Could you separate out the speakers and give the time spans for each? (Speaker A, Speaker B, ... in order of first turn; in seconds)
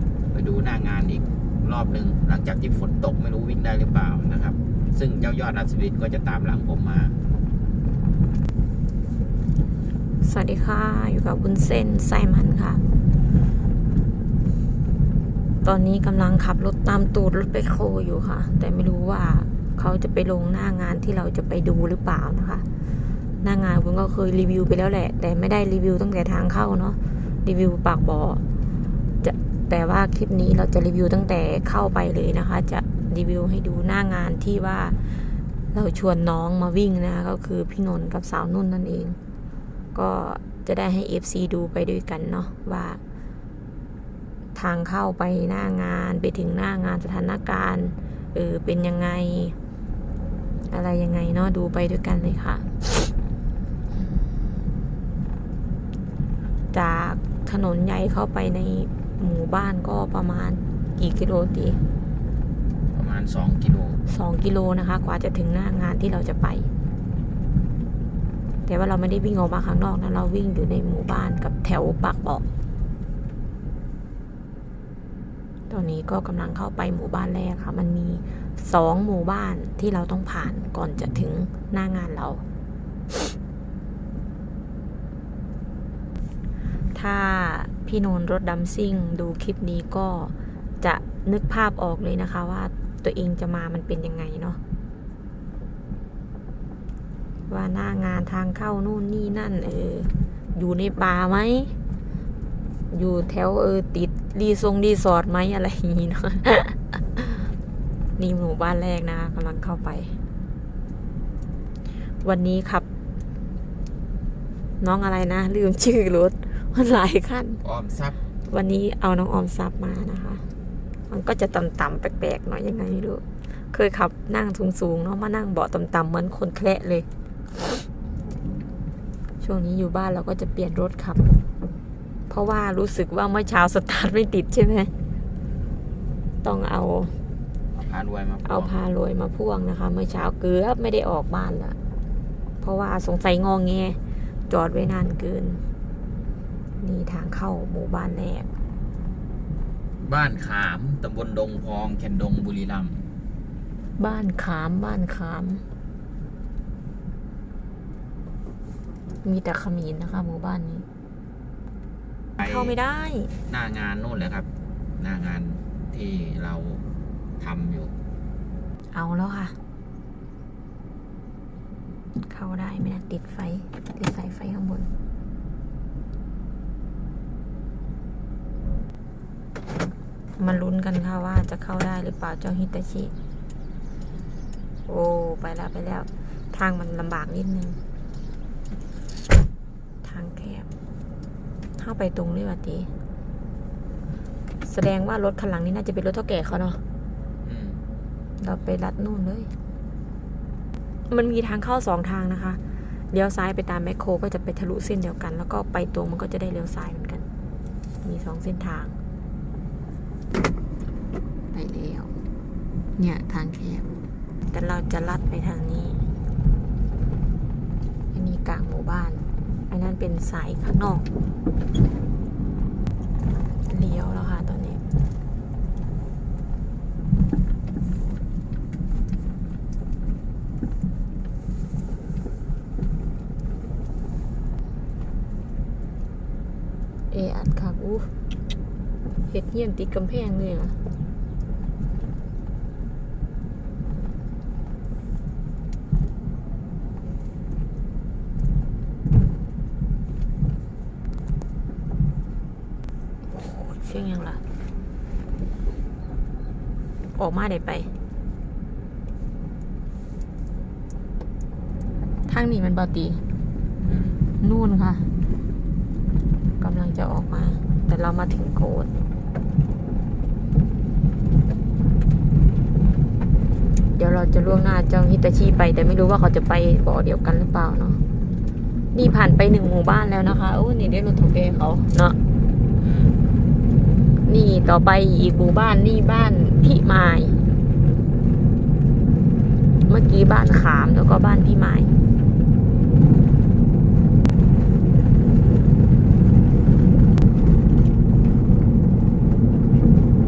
Speaker A: 0.3-7.1, 62.9-64.0, 117.6-118.2, 137.7-138.8, 150.0-153.1, 162.4-162.7, 163.5-164.5, 165.0-166.8, 167.4-167.9, 197.4-197.8, 263.8-264.2, 282.8-283.1
Speaker B: 10.2-12.8, 15.6-22.8, 23.4-28.4, 29.2-39.2, 39.9-43.0, 44.5-49.5, 50.7-53.1, 56.7-61.8, 64.0-66.7, 68.7-72.4, 75.7-82.4, 86.9-94.6, 97.5-101.8, 102.9-107.5, 108.2-110.2, 112.2-112.8, 114.8-117.6, 118.5-120.5, 121.1-127.1, 129.4-131.3, 132.3-134.9, 136.4-137.2, 138.4-141.8, 142.6-145.6, 146.8-148.5, 154.0-155.6, 159.2-160.9, 162.4-163.3, 168.9-169.6, 172.3-174.9, 180.4-183.1, 184.9-187.8, 190.0-190.7, 191.8-192.9, 194.6-196.8, 198.4-199.5, 201.1-202.6, 203.1-207.2, 208.0-209.0, 211.5-212.1, 213.0-213.9, 214.5-216.0, 218.1-221.0, 223.7-224.8, 237.1-238.1, 239.3-240.8, 253.3-254.4, 257.1-257.9, 262.3-263.2, 264.4-265.1, 266.6-268.9, 273.9-278.0, 278.9-282.2, 284.2-287.4, 289.9-291.9